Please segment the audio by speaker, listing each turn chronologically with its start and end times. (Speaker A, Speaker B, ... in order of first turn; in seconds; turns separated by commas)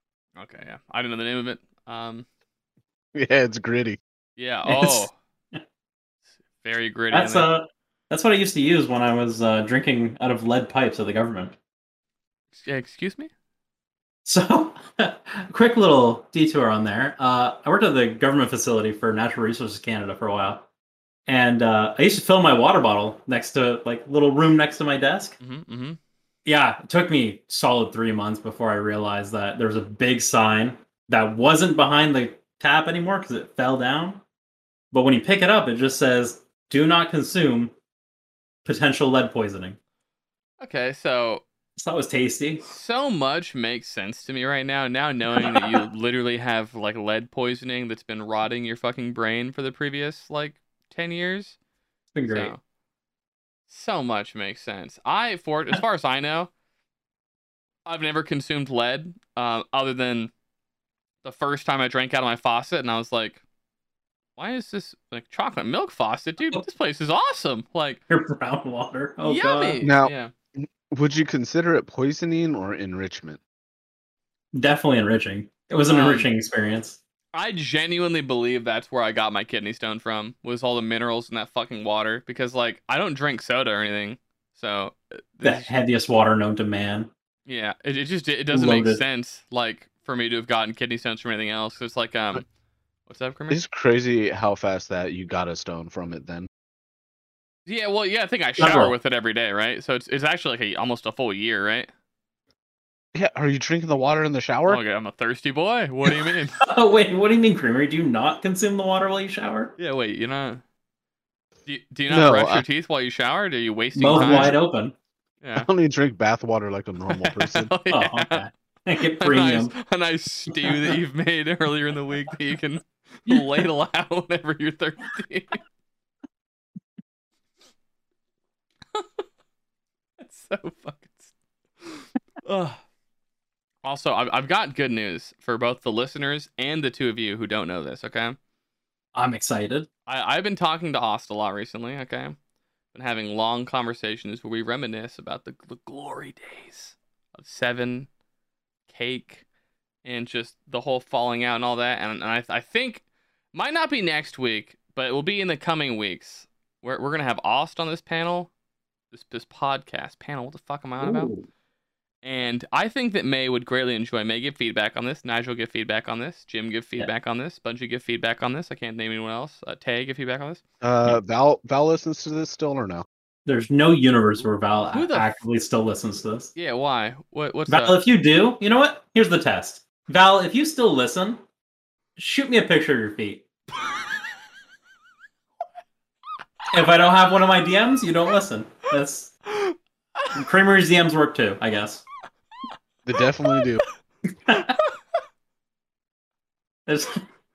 Speaker A: 0.4-2.3, Speaker B: 3.1-4.0, Speaker A: 4.4-5.1, Speaker C: 4.7-5.6, Speaker A: 6.6-7.5, Speaker C: 7.1-11.6, Speaker A: 12.6-13.3, Speaker C: 14.2-20.7, Speaker C: 21.3-25.4, Speaker A: 25.4-26.0, Speaker C: 26.5-34.2, Speaker C: 34.9-37.7, Speaker C: 38.6-39.8, Speaker A: 40.6-41.4, Speaker C: 41.8-42.6, Speaker A: 42.6-51.6, Speaker C: 45.4-45.7, Speaker C: 52.1-52.5, Speaker A: 52.3-52.6, Speaker A: 53.7-56.5, Speaker A: 57.9-60.3, Speaker A: 61.2-63.4, Speaker A: 64.4-68.0, Speaker C: 68.1-69.8, Speaker A: 69.2-70.3, Speaker B: 69.8-73.4, Speaker C: 74.5-77.0, Speaker A: 75.9-76.3, Speaker A: 77.3-85.7, Speaker C: 85.4-87.1, Speaker A: 87.5-92.5, Speaker C: 88.5-89.0, Speaker A: 93.1-93.6, Speaker B: 93.5-96.5, Speaker A: 97.7-101.9, Speaker C: 98.6-98.9, Speaker B: 103.2-104.8, Speaker A: 104.7-106.7, Speaker C: 106.6-109.7, Speaker A: 109.8-110.6, Speaker A: 111.7-114.6, Speaker B: 112.1-112.6, Speaker C: 114.0-115.0, Speaker B: 114.0-114.6, Speaker A: 115.4-115.7, Speaker B: 115.5-117.7, Speaker A: 117.1-118.5, Speaker C: 117.9-119.7, Speaker A: 119.1-125.6, Speaker C: 120.5-121.0, Speaker A: 128.9-129.2, Speaker A: 130.2-132.8, Speaker A: 133.8-138.4, Speaker C: 139.1-139.9, Speaker A: 140.1-142.4, Speaker A: 142.9-148.1, Speaker A: 148.9-149.4, Speaker A: 150.0-153.0, Speaker A: 153.5-158.5, Speaker A: 159.1-161.3, Speaker C: 161.0-161.4, Speaker A: 162.2-170.6, Speaker B: 170.8-173.1, Speaker C: 173.5-176.5, Speaker A: 174.9-175.4, Speaker A: 176.6-178.0, Speaker C: 177.7-181.4, Speaker C: 182.2-183.4, Speaker C: 186.7-189.4, Speaker A: 189.5-190.4, Speaker C: 190.3-192.1, Speaker B: 193.1-193.8, Speaker C: 194.5-194.8, Speaker C: 196.9-197.2